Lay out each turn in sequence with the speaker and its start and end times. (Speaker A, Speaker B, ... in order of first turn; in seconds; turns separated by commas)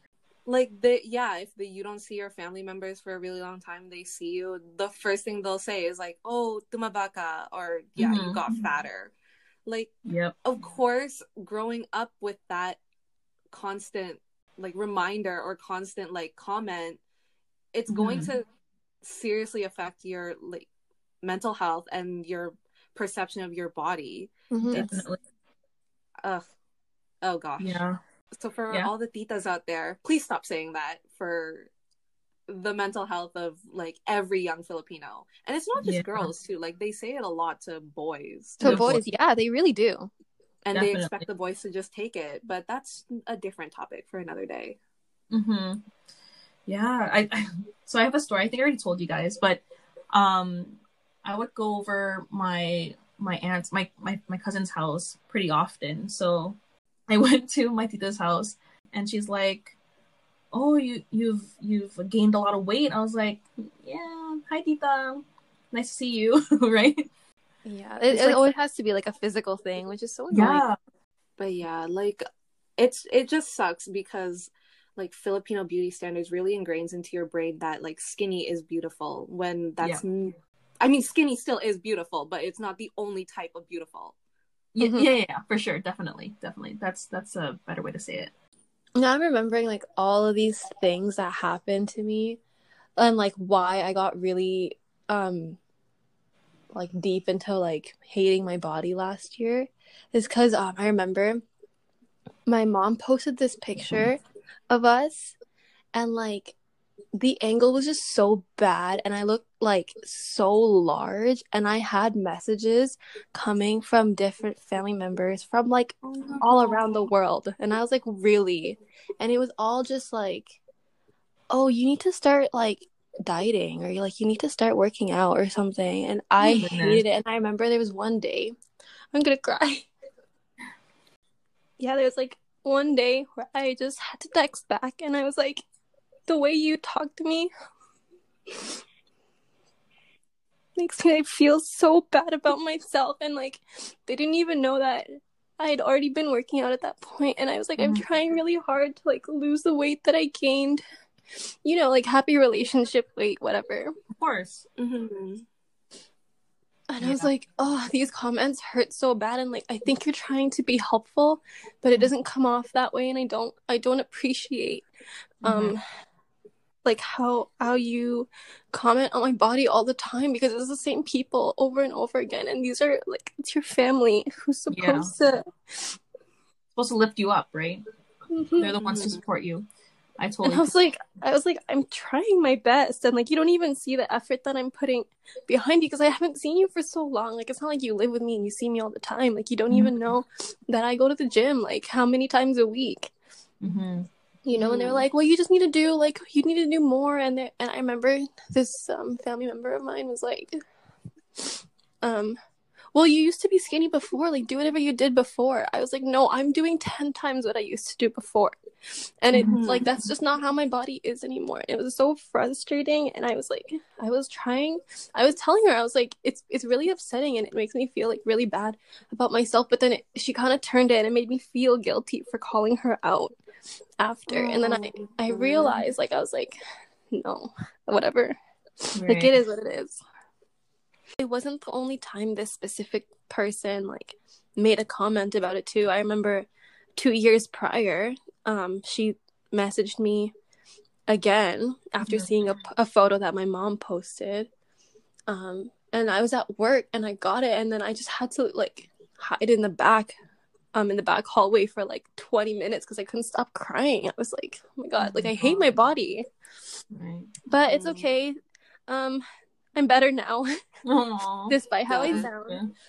Speaker A: 0.5-9.1, Speaker B: 8.0-8.4, Speaker A: 9.7-9.9, Speaker B: 10.1-10.3, Speaker A: 10.4-12.8, Speaker A: 13.5-17.0, Speaker A: 17.7-18.4, Speaker B: 17.9-18.3, Speaker A: 19.0-20.7, Speaker A: 21.2-25.0, Speaker C: 24.5-24.9, Speaker B: 24.6-25.2, Speaker A: 27.2-27.8, Speaker B: 27.6-28.0, Speaker A: 28.4-31.7, Speaker A: 32.5-38.9, Speaker B: 35.8-36.3, Speaker C: 38.6-40.1, Speaker B: 38.6-39.0, Speaker A: 40.6-44.8, Speaker B: 40.7-41.2, Speaker B: 45.3-45.8, Speaker B: 46.7-56.6, Speaker B: 57.1-59.7, Speaker B: 60.5-67.1, Speaker C: 67.7-70.6, Speaker B: 68.1-68.5, Speaker B: 70.3-70.8, Speaker A: 71.4-72.2, Speaker A: 72.8-84.2, Speaker B: 84.7-88.3, Speaker C: 84.8-85.1, Speaker C: 89.0-92.4, Speaker C: 93.0-95.6, Speaker C: 96.7-101.4, Speaker C: 102.5-105.3, Speaker B: 103.8-104.1, Speaker C: 105.9-106.5, Speaker C: 107.2-120.6, Speaker A: 116.0-116.8, Speaker C: 121.5-128.5, Speaker B: 126.4-127.0, Speaker C: 129.1-129.9, Speaker C: 131.8-135.6, Speaker C: 136.3-137.5, Speaker C: 140.8-150.8, Speaker B: 147.8-148.0, Speaker C: 151.4-153.9, Speaker B: 154.1-154.7, Speaker A: 154.8-155.4, Speaker C: 156.9-164.8, Speaker B: 157.0-157.3, Speaker B: 165.4-165.8, Speaker C: 165.4-165.8, Speaker C: 166.8-175.9, Speaker B: 174.7-175.1, Speaker B: 176.8-177.8, Speaker C: 178.3-178.7, Speaker B: 178.6-179.7, Speaker A: 178.8-179.2, Speaker B: 180.2-180.7, Speaker C: 180.4-193.1, Speaker B: 193.6-194.1, Speaker C: 194.4-200.6, Speaker A: 194.5-195.0, Speaker C: 201.4-202.4, Speaker C: 202.9-223.4, Speaker B: 209.3-209.6, Speaker A: 209.5-209.8, Speaker C: 224.0-226.6, Speaker A: 224.3-225.8, Speaker C: 227.1-228.3, Speaker B: 228.9-229.4, Speaker C: 229.0-230.0, Speaker C: 231.2-240.3, Speaker C: 241.1-244.5, Speaker B: 242.0-242.3, Speaker C: 245.3-250.2, Speaker C: 250.7-256.2, Speaker B: 255.0-255.7, Speaker B: 256.9-257.3, Speaker C: 257.5-258.4, Speaker A: 257.6-258.1, Speaker C: 258.9-259.2, Speaker C: 259.8-260.5, Speaker B: 260.8-262.7, Speaker C: 261.5-262.6, Speaker A: 261.9-262.3